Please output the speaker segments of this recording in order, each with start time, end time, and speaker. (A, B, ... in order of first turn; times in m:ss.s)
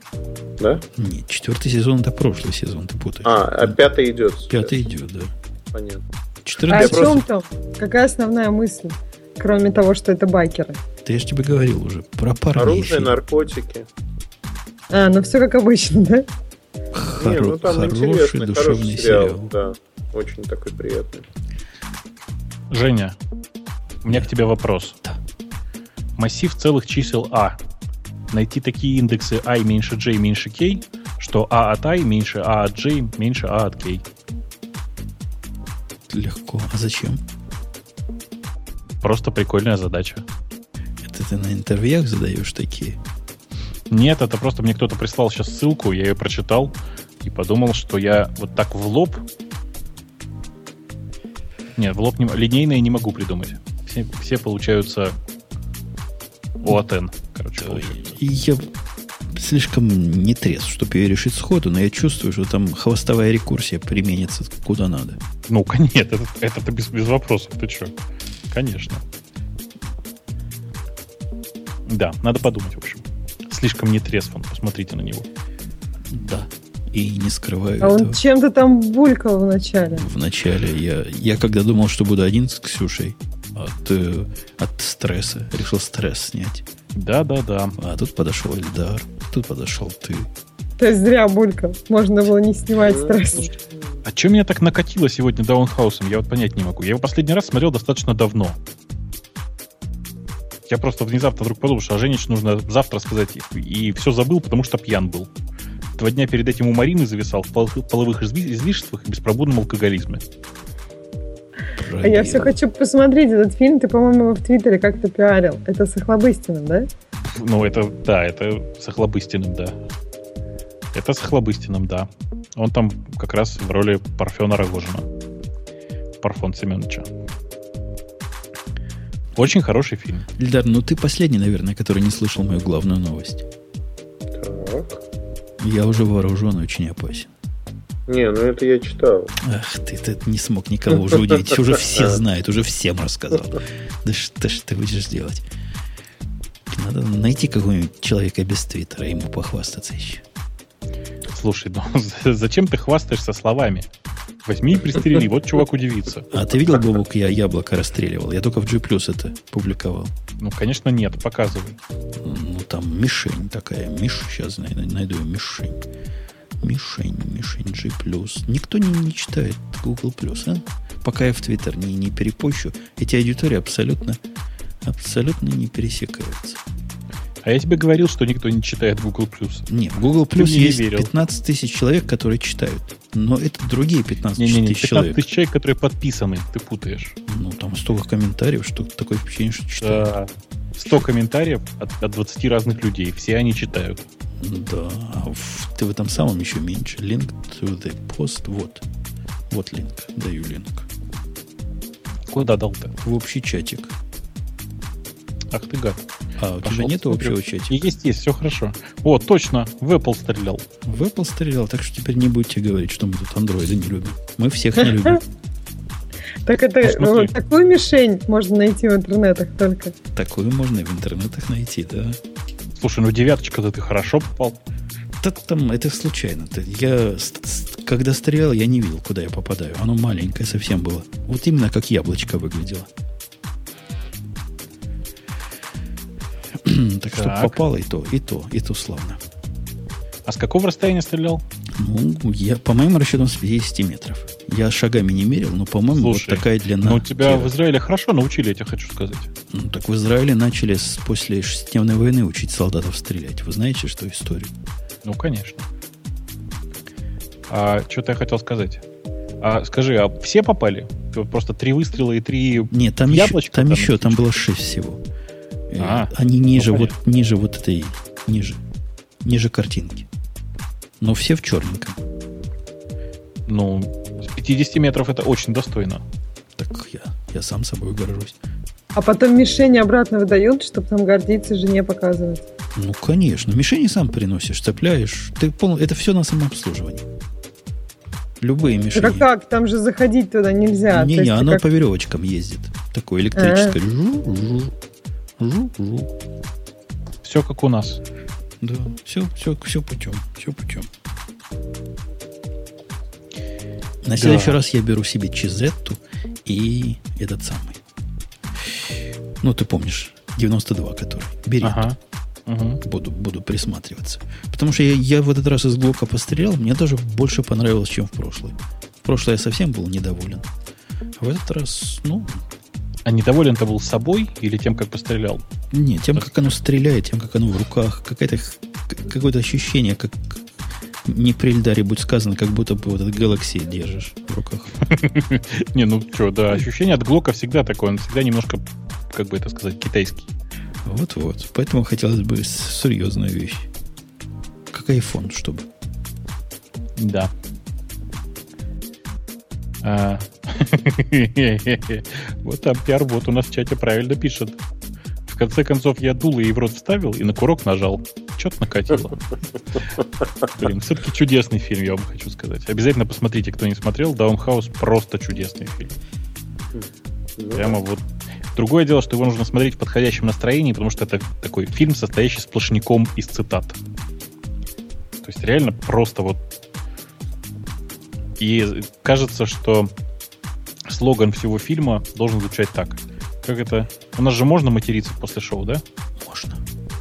0:00.6-0:00.9 A
0:01.0-0:03.8 B
0:03.2-0:04.9 A
0:04.5-0:05.3 B
0:05.7-0:06.0 A
0:06.4-0:07.3 B
0:06.7-0:07.2 A
0:06.7-0:10.8 C
0:11.0-0:13.2 B
0:12.6-0:13.9 A
0:14.9-0:16.3 C
0:16.9-0:19.5 B
0:17.2-0:21.2 A
0:22.7-0:23.2 D
0:24.0-0:25.0 D
0:26.2-0:27.6 D
0:28.3-0:34.0 D
0:36.1-0:37.2 B
0:39.0-0:40.2 D
0:41.0-0:43.0 B
0:43.9-0:49.2 D
0:51.8-0:55.2 D
0:56.6-0:58.2 D
0:57.6-0:58.7 B
0:59.3-1:05.2 B
1:05.5-1:08.0 D
1:08.5-1:09.0 D
1:11.9-1:15.3 D
1:16.1-1:18.2 B
1:17.8-1:20.1 C
1:20.0-1:26.6 B
1:27.0-1:27.8 D
1:27.8-1:30.3 B
1:30.8-1:33.5 C
1:32.8-1:33.5 A
1:34.1-1:38.6 D
1:40.7-1:45.3 D
1:46.0-1:50.2 D
1:51.8-1:52.6 B
1:52.0-1:56.9 C
1:57.3-1:59.8 D
2:00.9-2:05.1 D
2:06.2-2:07.1 D
2:09.4-2:10.3 D
2:10.4-2:13.5 B
2:14.4-2:15.0 A
2:15.6-2:17.3 B
2:18.1-2:19.3 A
2:19.4-2:25.4 B
2:21.1-2:21.4 A
2:21.9-2:22.2 A
2:26.7-2:30.2 B
2:31.3-2:33.9 D
2:34.5-2:36.3 D
2:36.3-2:40.1 B
2:40.4-2:41.8 D
2:42.2-2:45.8 B
2:46.6-2:54.2 B
2:54.8-2:56.6 B
2:57.4-2:59.7 D
2:59.7-3:05.2 B
3:00.4-3:01.1 D
3:04.4-3:07.2 D
3:07.3-3:10.1 B
3:09.8-3:14.0 D
3:14.4-3:18.8 B
3:19.5-3:20.9 B
3:22.3-3:23.0 D
3:23.0-3:23.9 B
3:25.5-3:26.1 D
3:26.4-3:27.9 B
3:26.6-3:30.7 D
3:30.8-3:35.2 B
3:36.5-3:40.0 C
3:36.8-3:37.3 D
3:40.2-3:42.2 B
3:42.8-3:44.6 D
3:45.2-3:52.9 B
3:56.5-3:59.2 B
3:57.1-3:57.6 D
4:00.3-4:01.4 D
4:01.8-4:07.5 B
4:06.0-4:09.3 D
4:09.5-4:14.5 B
4:15.0-4:15.6 D
4:17.5-4:18.8 D
4:19.4-4:24.1 D
4:22.7-4:25.0 B
4:25.7-4:28.6 B
4:25.8-4:26.9 D
4:29.2-4:30.1 B
4:31.0-4:32.0 B
4:33.5-4:36.0 D
4:36.6-4:38.4 B
4:39.0-4:42.4 C
4:42.8-4:47.1 B
4:48.4-4:49.3 B
4:48.9-4:51.6 C
4:50.9-4:54.7 B
4:53.4-4:53.8 C
4:55.4-4:56.1 B
4:57.2-4:58.0 D
4:58.6-5:00.9 B
5:04.0-5:07.8 B
5:04.2-5:04.6 D
5:08.6-5:11.9 B
5:11.6-5:12.8 D
5:12.8-5:20.5 B
5:21.2-5:22.4 B
5:23.1-5:25.4 D
5:25.7-5:30.4 B
5:31.0-5:34.8 B
5:34.8-5:40.3 D
5:40.8-5:43.7 B
5:44.7-5:45.7 B
5:47.0-5:47.3 D
5:49.8-5:54.6 D
5:55.3-5:59.2 D
5:59.7-6:06.0 D
6:06.7-6:07.8 A
6:07.5-6:08.0 D
6:08.6-6:13.8 D
6:15.2-6:16.4 D
6:18.4-6:19.9 D
6:20.9-6:25.8 D
6:26.2-6:26.6 B